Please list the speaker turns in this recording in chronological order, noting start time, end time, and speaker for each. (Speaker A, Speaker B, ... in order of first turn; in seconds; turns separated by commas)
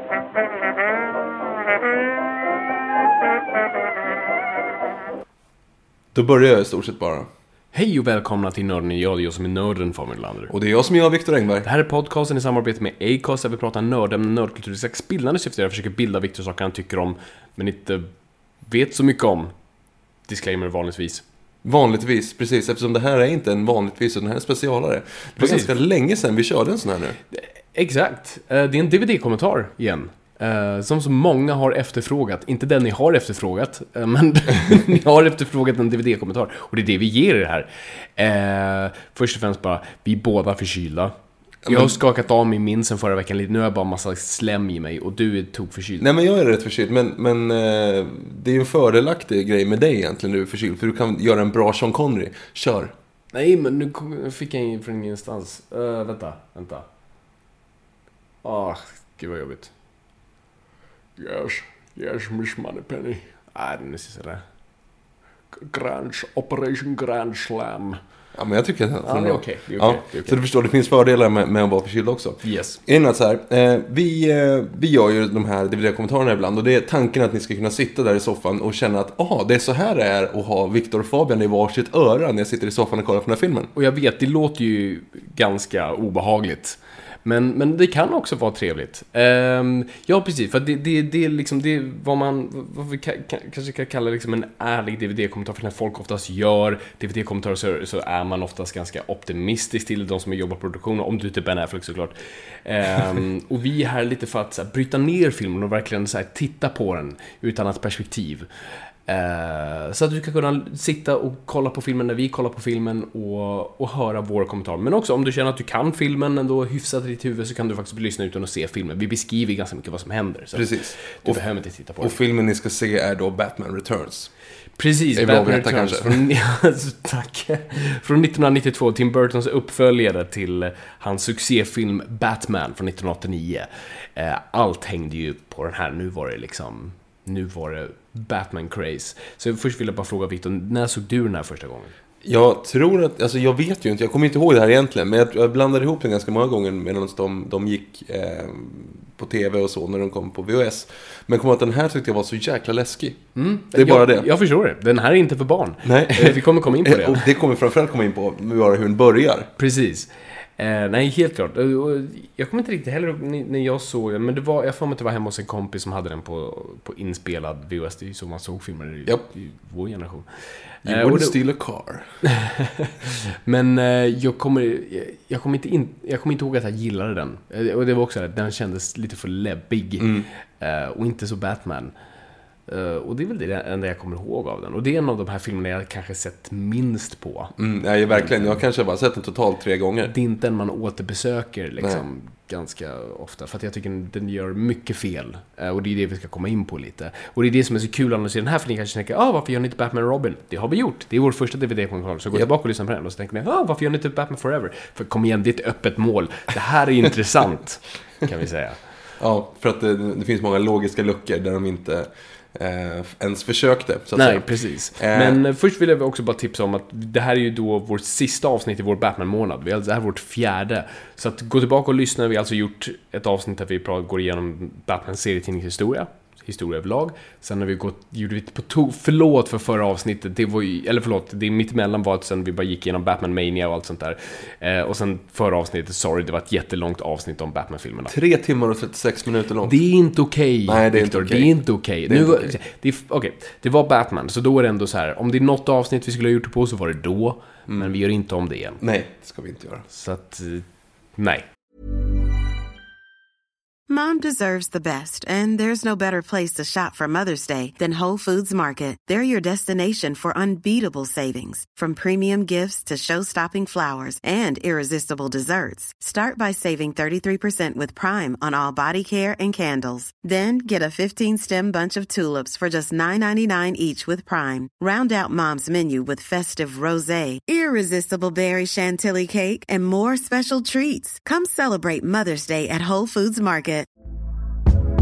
Speaker A: 6.1-7.3, Speaker B: 7.7-10.5, Speaker A: 10.5-11.7, Speaker B: 11.6-18.1, Speaker B: 18.6-19.5, Speaker B: 20.3-21.2, Speaker A: 21.6-27.2, Speaker B: 25.4-25.7, Speaker B: 27.3-41.1, Speaker A: 41.7-42.0, Speaker B: 41.7-46.1, Speaker A: 46.0-52.9, Speaker B: 53.3-56.9, Speaker B: 58.4-59.7, Speaker B: 61.2-64.4, Speaker B: 65.5-68.0, Speaker A: 68.3-83.7, Speaker B: 69.0-70.4, Speaker B: 72.4-72.8, Speaker B: 83.8-108.5, Speaker B: 109.1-122.1, Speaker A: 120.5-121.4, Speaker A: 122.0-124.3, Speaker B: 124.8-141.9, Speaker A: 125.1-126.3, Speaker A: 142.2-154.3, Speaker B: 153.4-157.3, Speaker A: 155.8-159.5, Speaker B: 159.6-170.3, Speaker A: 170.8-172.1, Speaker B: 170.9-171.4, Speaker B: 172.3-181.9, Speaker A: 180.0-180.3, Speaker B: 182.7-187.6, Speaker A: 187.6-190.1, Speaker B: 188.1-188.6, Speaker B: 190.1-208.8, Speaker A: 209.2-215.4, Speaker B: 214.2-238.1, Speaker A: 238.1-239.8, Speaker B: 239.6-248.8, Speaker A: 240.7-242.6, Speaker A: 248.8-249.8, Speaker B: 249.9-250.7, Speaker B: 251.2-251.4, Speaker C: 253.9-283.9